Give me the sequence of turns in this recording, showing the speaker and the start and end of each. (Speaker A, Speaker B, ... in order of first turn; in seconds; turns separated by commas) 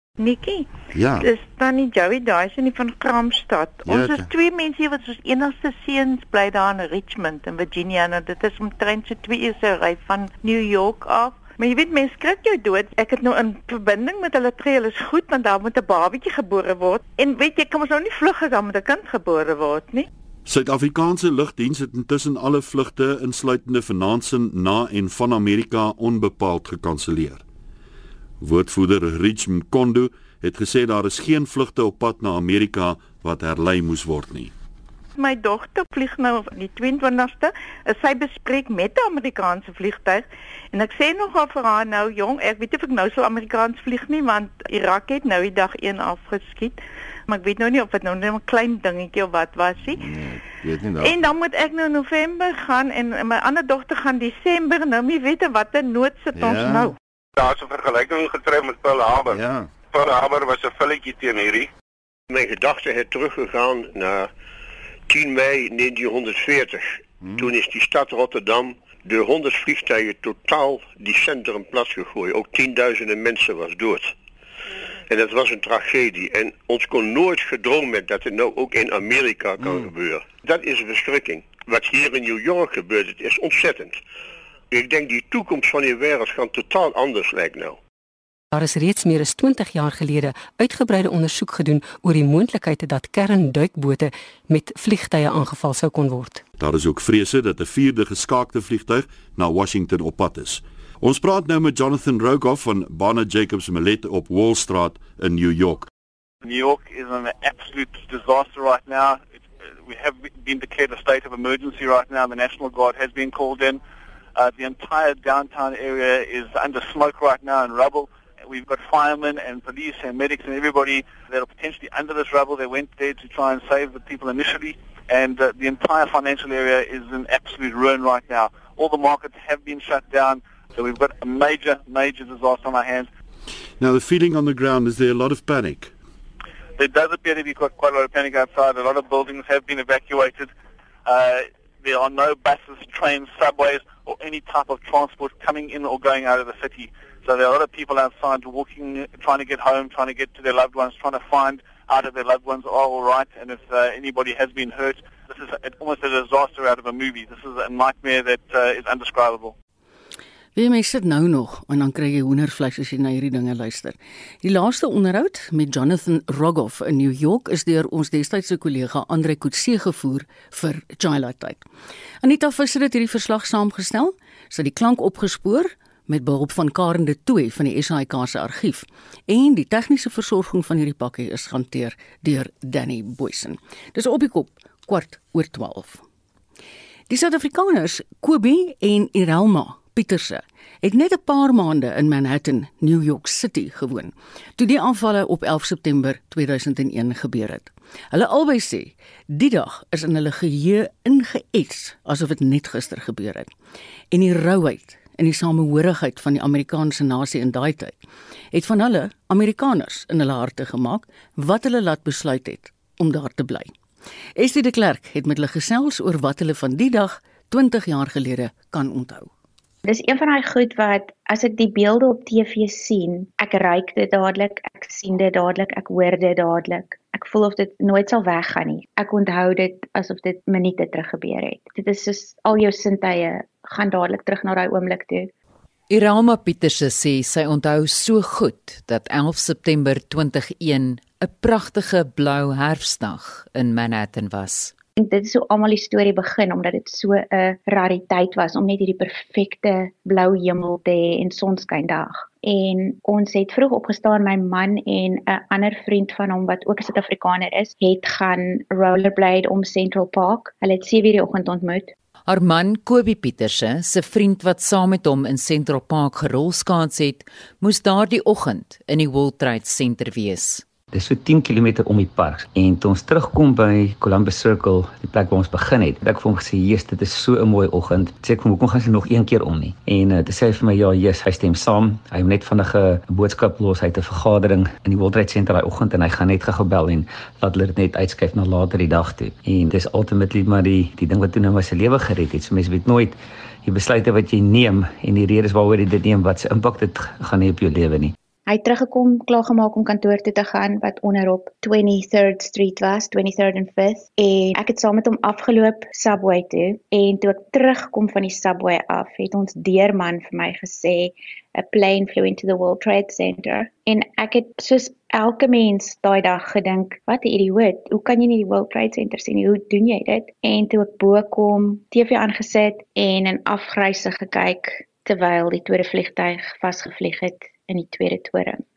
Speaker A: 0.2-20.1, Speaker B: 0.9-1.3, Speaker B: 3.8-4.3, Speaker C: 20.4-27.4, Speaker C: 28.4-34.5, Speaker A: 35.1-50.0, Speaker B: 50.0-51.2, Speaker A: 51.0-56.9, Speaker B: 56.3-56.9, Speaker D: 57.4-61.7, Speaker B: 59.3-59.7, Speaker E: 62.3-64.3, Speaker E: 65.1-74.2, Speaker B: 67.2-67.5, Speaker E: 75.1-84.0, Speaker E: 84.7-87.8, Speaker F: 88.5-96.4, Speaker C: 96.6-105.9, Speaker G: 106.4-113.8, Speaker G: 114.3-133.1, Speaker C: 133.8-135.9, Speaker G: 136.8-140.5, Speaker G: 141.0-159.5, Speaker H: 160.5-171.6, Speaker H: 172.2-186.0, Speaker H: 187.1-203.5, Speaker H: 204.1-208.0, Speaker H: 208.5-213.7, Speaker H: 214.4-219.3, Speaker I: 219.8-235.3, Speaker J: 235.9-244.7, Speaker I: 245.0-261.9, Speaker J: 262.3-270.6, Speaker K: 270.9-298.1, Speaker I: 298.5-328.6